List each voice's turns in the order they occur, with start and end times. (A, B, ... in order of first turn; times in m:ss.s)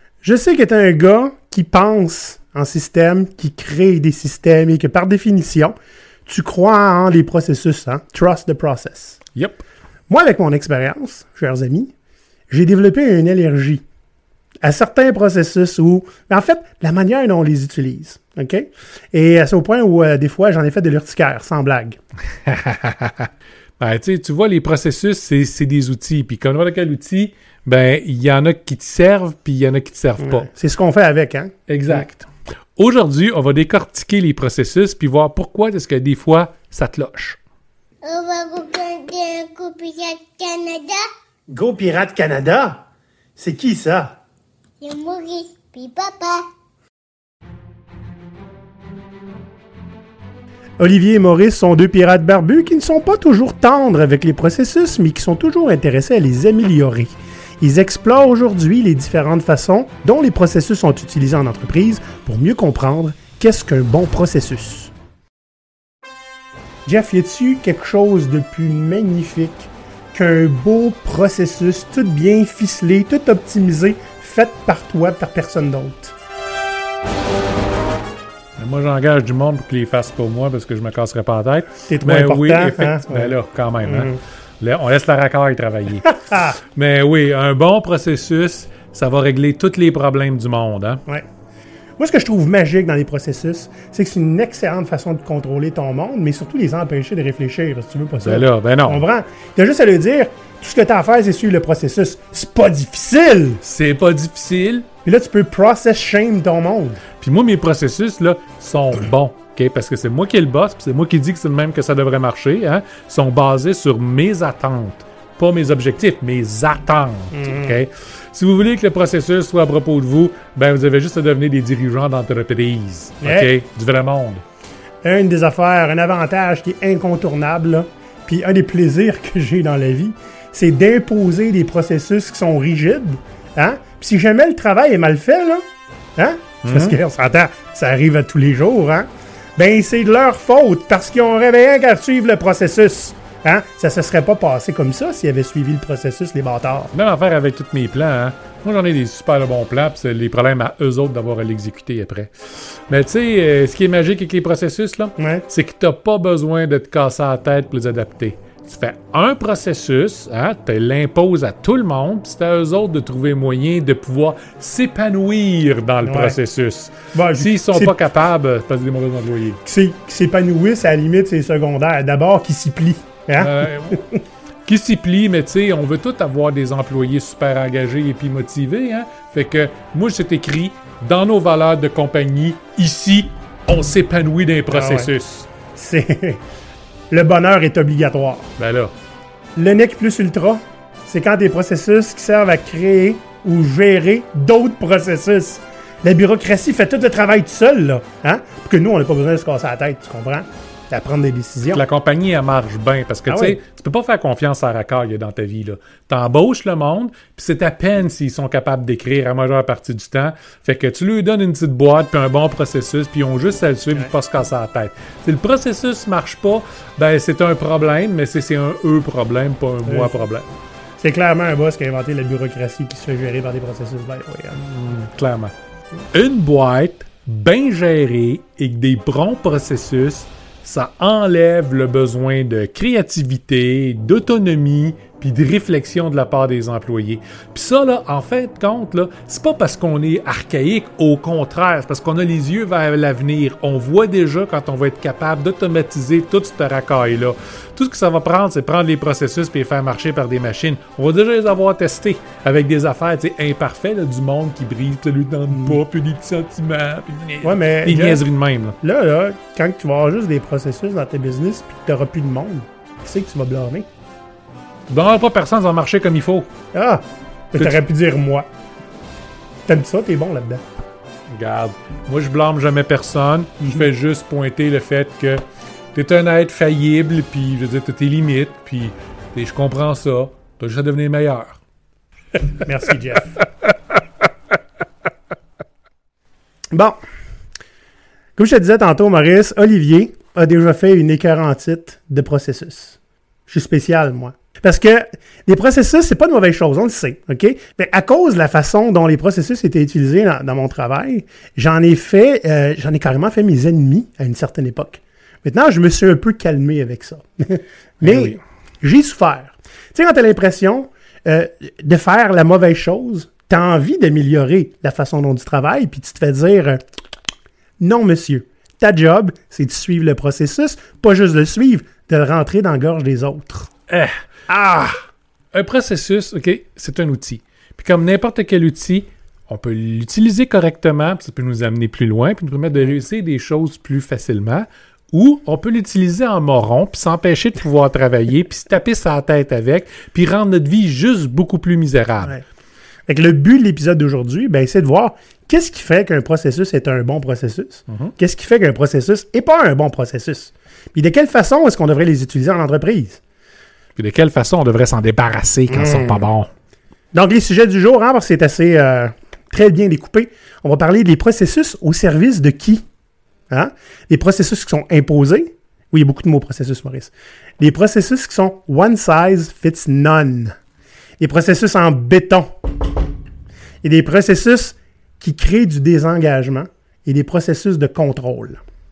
0:00.2-0:05.7 A
0:06.2-0:09.2 A
0:09.3-0:09.6 B
0:10.1-0:11.9 A
0:12.5-0:13.8 A
0:14.6-0:22.0 A
0:22.3-0:30.5 B
0:30.2-0:32.0 A
0:31.7-0:37.4 B
0:38.0-0:41.1 C
0:41.5-0:42.8 A
0:43.4-0:44.2 A
0:44.8-0:46.4 C
0:50.8-1:04.9 A
1:06.8-1:16.1 A
1:18.6-1:31.0 B
1:21.9-1:23.3 A
1:23.8-1:24.2 A
1:26.1-1:26.6 A
1:32.0-1:43.6 A
1:38.2-1:39.0 B
1:43.6-1:44.9 B
1:45.0-1:47.0 A
1:47.2-2:04.4 B
1:57.3-1:57.8 A
2:03.2-2:03.5 A
2:05.0-2:15.6 A
2:16.2-2:26.9 A
2:16.6-2:17.0 B
2:26.9-2:49.6 B
2:35.2-2:35.4 A
2:46.0-2:46.4 A
2:47.1-2:48.0 A
2:49.6-2:54.2 A
2:53.4-2:54.0 B
2:54.6-3:05.5 B
3:04.7-3:05.1 A
3:05.7-3:06.4 A
3:07.1-3:08.5 A
3:08.6-3:08.9 B
3:09.6-3:21.8 A
3:21.7-3:40.5 B
3:23.3-3:23.6 A
3:39.8-3:40.2 A
3:41.0-3:44.6 A
3:44.6-3:45.5 B
3:46.1-4:18.8 B
4:15.5-4:15.8 A
4:17.4-4:18.2 A
4:18.8-4:23.9 A
4:24.9-4:26.5 B
4:26.7-4:28.5 A
4:27.5-4:27.8 B
4:29.7-4:30.6 A
4:31.3-4:35.4 B
4:35.9-4:41.6 B
4:42.6-4:43.4 A
4:46.7-4:47.0 A
4:48.4-5:16.8 A
5:08.0-5:08.4 B
5:17.8-5:23.7 A
5:24.5-5:24.9 A
5:25.5-5:42.4 B
5:43.1-5:53.2 A
5:54.0-5:56.5 B
5:55.7-5:56.2 A
5:57.1-6:02.8 A
6:03.5-6:10.5 A
6:11.2-6:12.6 A
6:13.8-6:18.6 A